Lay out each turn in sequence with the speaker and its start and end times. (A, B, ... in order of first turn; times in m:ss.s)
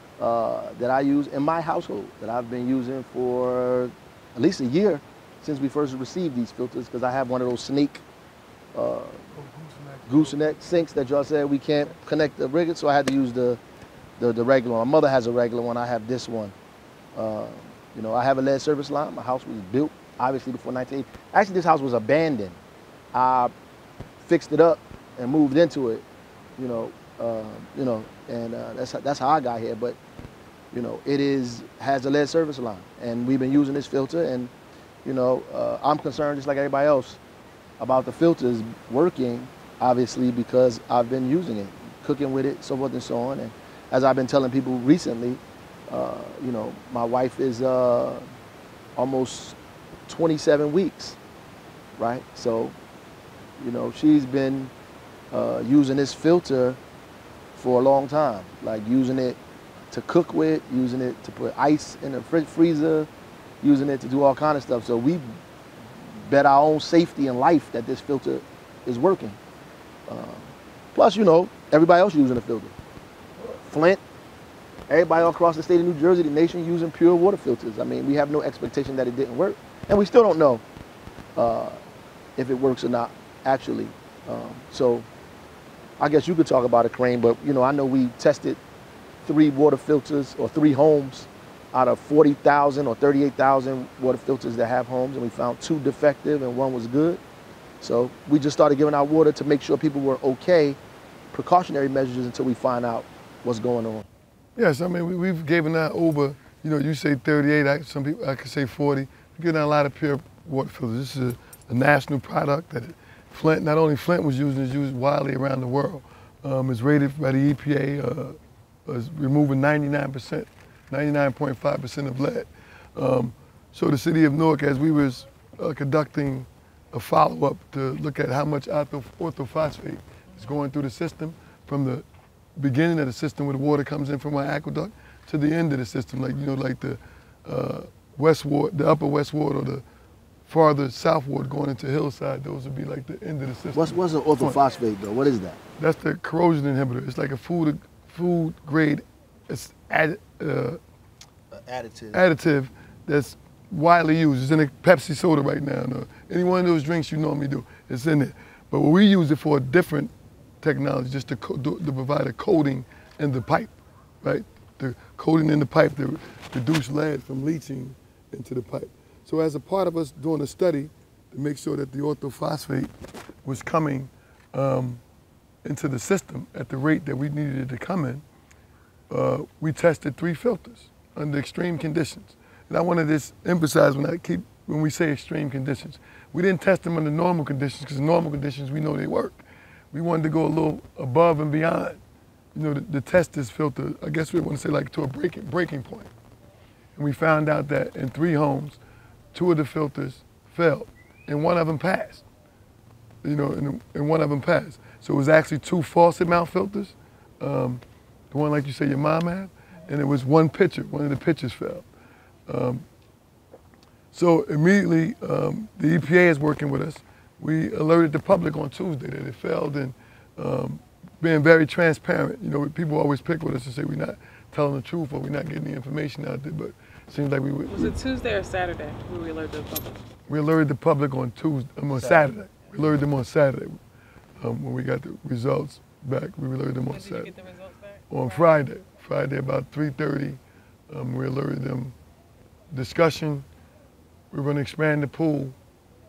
0:00.2-0:08.0 A
0:08.8-0:09.2 A
0:09.3-0:10.8 B
0:10.1-0:13.6 A
0:14.2-0:16.5 A
0:17.2-0:22.6 A
0:23.1-0:23.5 A
0:24.2-0:26.0 A
0:26.6-0:30.0 A
0:30.7-0:34.5 A
0:35.0-0:37.2 A
0:37.8-0:48.2 A
0:49.0-0:49.6 A
0:50.1-0:51.2 A
0:52.0-0:52.8 A
0:53.6-0:54.7 A
0:55.3-0:56.8 A
0:57.6-0:59.4 A
0:59.9-1:03.1 A
1:03.6-1:05.4 A
1:06.1-1:09.4 A
1:10.1-1:12.8 A
1:13.5-1:14.0 A
1:14.9-1:20.6 A
1:21.4-1:21.8 A
1:22.4-1:25.1 A
1:26.0-1:28.6 A
1:29.2-1:37.2 A
1:37.8-1:40.8 A
1:41.3-1:44.1 A
1:44.6-2:12.0 B
2:12.6-2:19.8 B
2:20.5-2:24.6 B
2:23.7-2:25.6 A
2:25.8-2:30.8 B
2:31.5-2:32.2 A
2:32.1-2:40.1 B
2:40.6-2:52.9 B
2:53.4-2:55.0 B
2:55.6-2:58.2 B
2:59.1-3:12.0 B
3:12.6-3:16.1 B
3:17.0-3:18.8 B
3:19.3-3:22.2 B
3:23.2-3:31.9 B
3:32.5-3:32.8 B
3:34.1-3:48.0 B
3:47.7-3:50.0 C
3:50.3-3:53.8 B
3:52.0-3:52.3 A
3:54.4-3:57.3 B
3:56.9-3:58.6 C
3:58.1-4:02.0 B
4:02.7-4:03.4 B
4:04.3-4:05.6 B